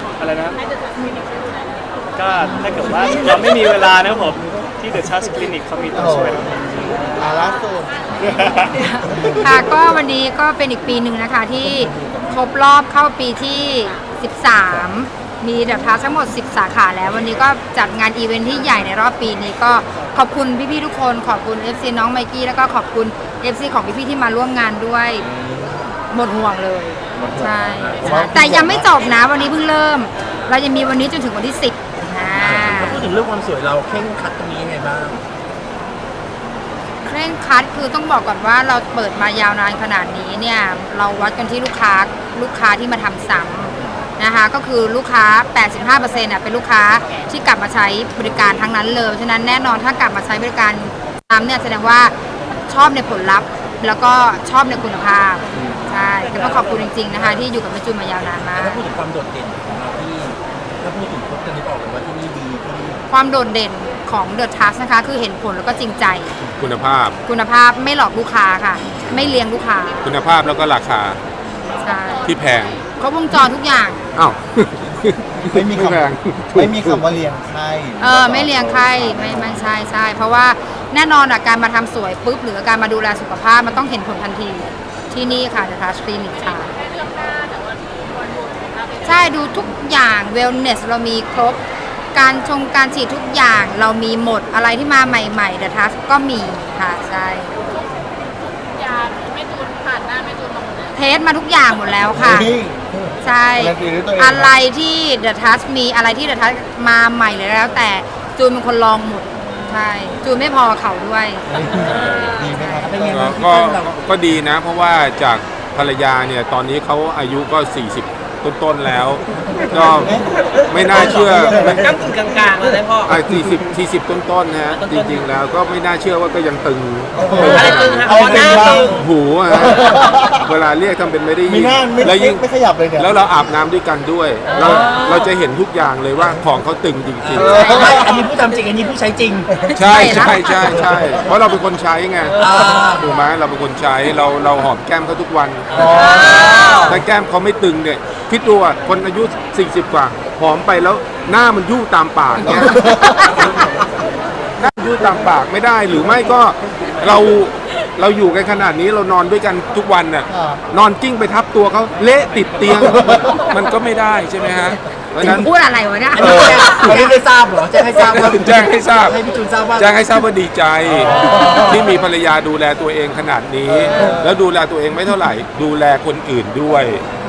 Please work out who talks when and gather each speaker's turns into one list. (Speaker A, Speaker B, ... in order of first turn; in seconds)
Speaker A: 0.2-0.6, 2.1-7.2, 8.2-8.8
Speaker B: 5.9-6.5, 7.1-8.1, 9.0-9.8, 28.0-28.9, 75.5-79.7, 102.1-104.5, 111.5-113.3, 119.7-122.6, 127.1-128.9, 129.5-130.4, 131.5-133.1, 137.3-138.3, 139.5-141.3, 145.7-147.0, 152.5-153.5, 160.3-160.6, 162.9-163.2, 166.2-167.2, 171.0-171.8, 173.7-174.3
Speaker C: 8.7-25.3, 26.1-33.1, 37.0-52.1, 52.7-58.8, 63.1-66.3, 67.2-70.0, 71.8-72.3, 73.0-74.0, 78.0-86.7, 89.0-91.6, 92.1-97.6, 100.9-102.5, 103.2-111.5, 112.5-112.8, 137.4-137.9, 139.7-140.4, 165.2-167.0
Speaker D: 11.9-12.2, 25.2-26.0, 27.1-28.3, 32.2-35.2, 55.5-56.7, 58.5-63.0, 112.8-114.0, 128.1-129.0, 137.2-139.6, 142.3-143.1, 145.7-146.1, 166.2-170.0
Speaker E: 66.4-67.2, 70.0-71.2, 72.2-72.8, 74.1-77.1, 111.9-112.5, 113.1-122.0, 123.0-137.7, 139.7-152.9, 154.6-165.5, 168.0-169.2, 169.8-177.0
Speaker F: 86.8-89.0, 99.0-100.8, 111.9-112.5
Speaker G: 120.9-123.2, 124.7-125.3, 127.3-129.0, 134.5-135.3, 142.3-142.7